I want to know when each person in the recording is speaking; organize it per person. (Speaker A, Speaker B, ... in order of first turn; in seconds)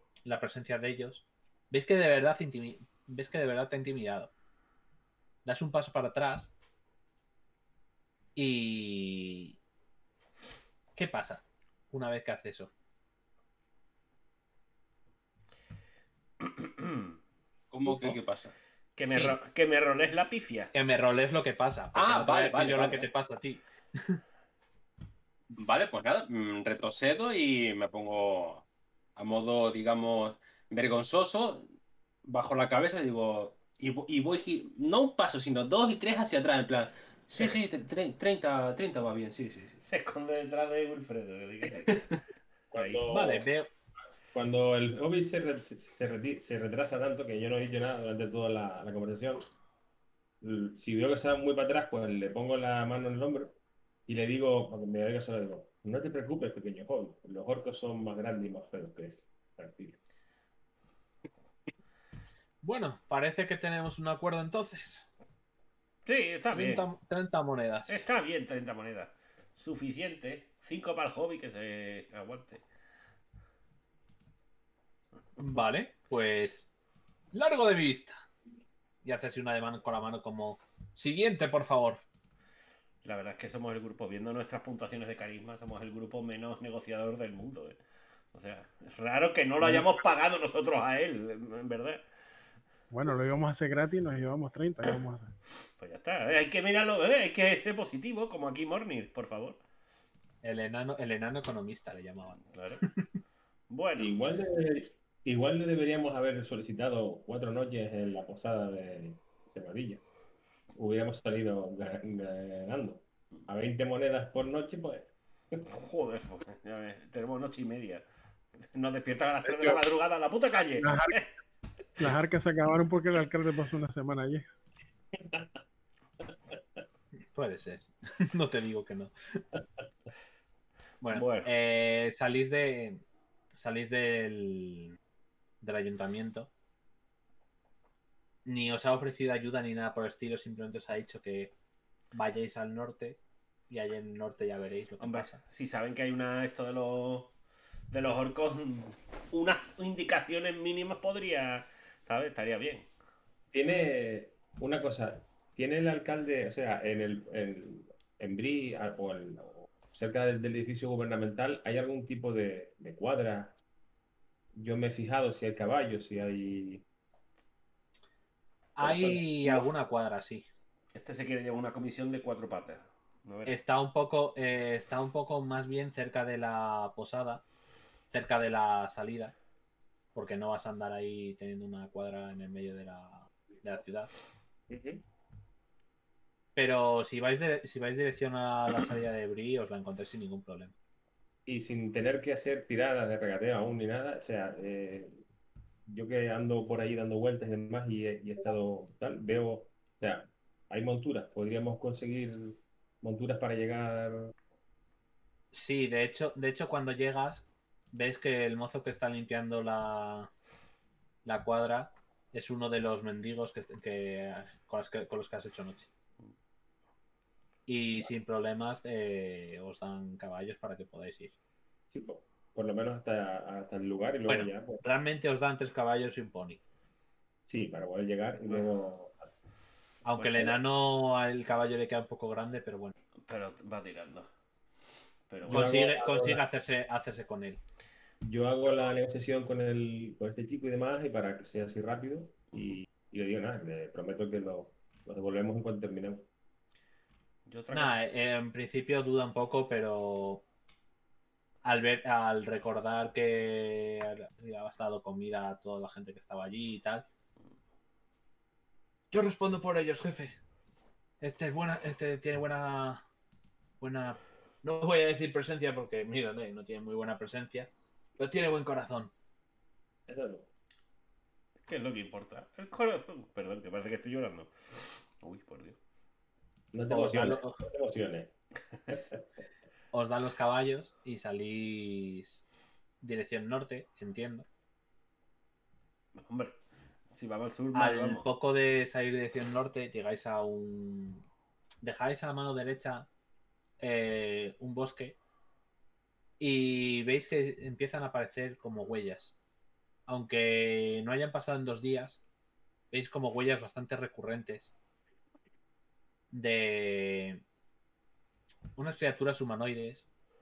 Speaker A: 0.2-4.3, 5.4-6.5, 8.3-9.6, 10.9-12.7, 17.8-18.2, 19.1-19.4, 20.7-24.2, 43.1-43.7, 62.6-65.1, 66.5-68.0, 75.4-76.7, 77.3-78.2, 79.0-82.0, 100.4-103.0, 127.3-129.4, 131.0-133.0, 133.6-135.0, 135.6-136.5, 138.4-141.5, 142.1-143.2, 143.7-145.4, 168.8-170.4, 173.4-177.4, 178.1-179.3, 180.1-184.1, 186.6-190.7, 205.5-210.3, 211.2-215.9, 217.7-221.3, 224.3-226.6, 230.0-232.9, 235.5-237.6, 247.7-250.4, 251.6-257.1, 259.1-260.3, 261.2-263.0, 263.8-269.1, 276.9-277.6, 279.9-282.4, 283.0-284.5, 287.7-291.2, 291.8-293.1, 293.8-295.1, 296.4-299.4, 300.1-302.2, 302.9-304.7, 306.3-307.4, 308.8-310.1
Speaker B: 16.4-17.1, 18.9-20.7, 39.8-42.0, 42.7-43.0, 66.0-66.8, 67.9-72.6, 83.0-87.8, 88.3-92.0, 95.8-99.6, 102.4-102.8, 103.7-104.1, 115.7-118.0, 118.6-121.3, 131.1-131.5, 145.0-147.3, 147.9-152.9, 170.9-173.6, 228.5-228.8, 233.3-234.3, 235.3-235.7, 247.5-248.0, 271.6-275.8, 286.1-286.6, 287.1-288.3
Speaker C: 17.7-18.5, 21.9-23.1, 25.5-28.6, 29.1-31.6, 32.3-39.7
Speaker D: 42.7-43.5, 44.3-49.5, 50.4-53.5, 54.1-60.0, 104.0-110.0, 110.7-115.6, 153.5-163.5, 164.5-166.8, 168.8-169.7, 184.7-185.0, 191.5-195.2, 195.9-204.3, 221.9-224.8, 227.5-229.3, 235.4-236.4, 238.2-246.2, 270.1-270.5, 276.7-278.3, 278.9-279.2
Speaker E: 92.9-95.3, 119.5-119.8, 120.8-121.2, 122.0-124.4